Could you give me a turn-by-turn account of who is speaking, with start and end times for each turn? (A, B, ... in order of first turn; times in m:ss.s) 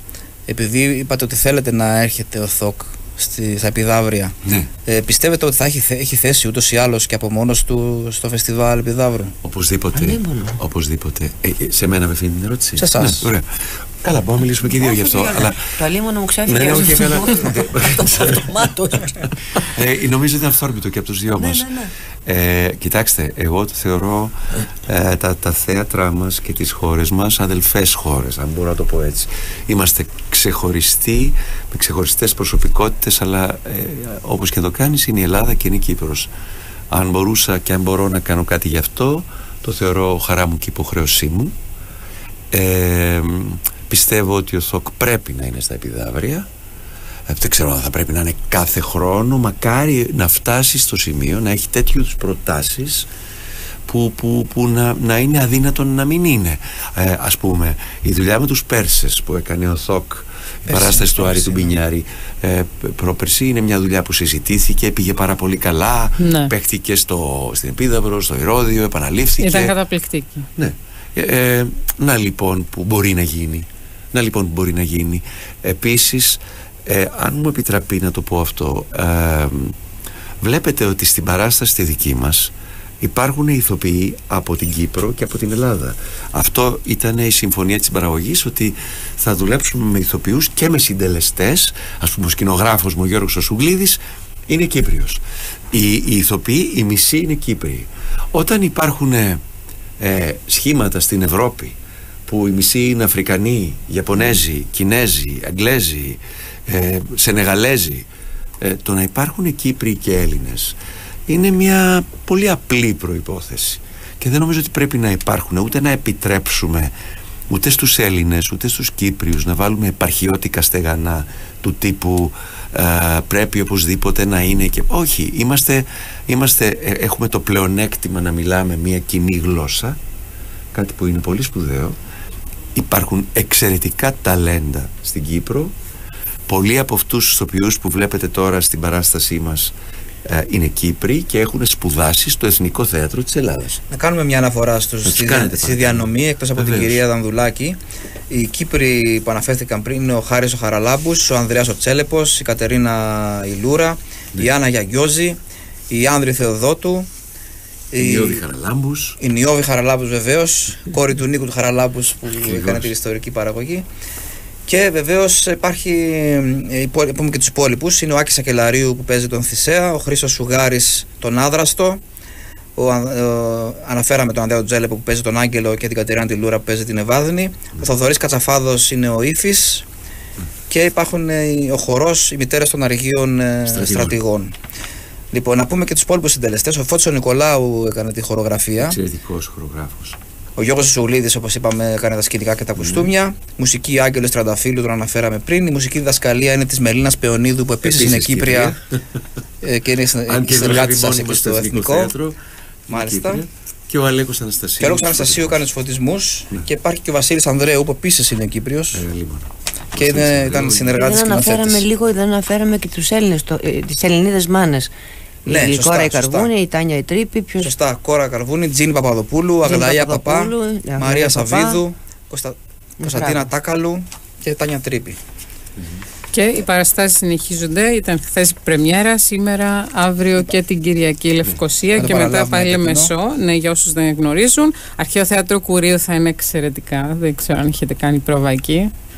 0:00.5-0:04.3 A
0:04.9-0:09.3 A
0:09.4-0:13.4 B
0:09.9-0:10.6 C
0:12.8-0:13.3 A
0:14.0-0:15.7 B
0:14.8-0:19.2 C
0:16.4-0:18.4 B
0:19.7-0:21.6 B
0:21.4-0:21.9 C
0:22.2-0:36.3 B
0:36.9-0:41.5 B
0:42.5-0:46.4 B
0:47.3-0:53.1 B
0:53.9-1:09.8 B
1:00.7-1:01.7 A
1:06.2-1:06.5 D
1:09.4-1:10.5 D
1:10.6-1:19.7 B
1:20.4-1:35.2 B
1:35.7-1:39.4 B
1:40.0-1:41.7 B
1:42.3-1:48.1 B
1:48.6-1:50.7 B
1:51.3-1:56.9 B
1:57.5-2:10.0 B
2:10.7-2:12.0 B
2:12.7-2:15.7 B
2:16.5-2:19.7 B
2:20.2-2:23.8 B
2:23.9-2:27.8 A
2:25.0-2:27.0 B
2:28.3-2:35.4 A
2:35.9-2:37.1 A
2:37.9-2:38.4 A
2:38.0-2:39.2 B
2:39.2-2:43.8 A
2:42.4-2:42.9 B
2:44.7-2:52.0 A
2:52.8-2:59.8 A
3:00.7-3:04.5 A
3:03.7-3:04.2 B
3:05.3-3:09.0 A
3:08.8-3:10.2 B
3:10.6-3:18.7 A
3:12.8-3:13.1 B
3:17.8-3:18.8 B
3:19.6-3:22.2 A
3:20.3-3:22.4 B
3:22.9-3:25.6 B
3:22.9-3:23.4 A
3:24.8-3:29.0 A
3:28.9-3:31.0 B
3:29.9-3:31.8 A
3:31.0-3:34.9 C
3:35.4-3:37.7 C
3:35.4-3:36.5 A
3:37.6-3:45.2 A
3:39.6-3:41.8 C
3:43.0-3:43.5 C
3:46.3-3:58.9 D
3:51.9-3:53.1 A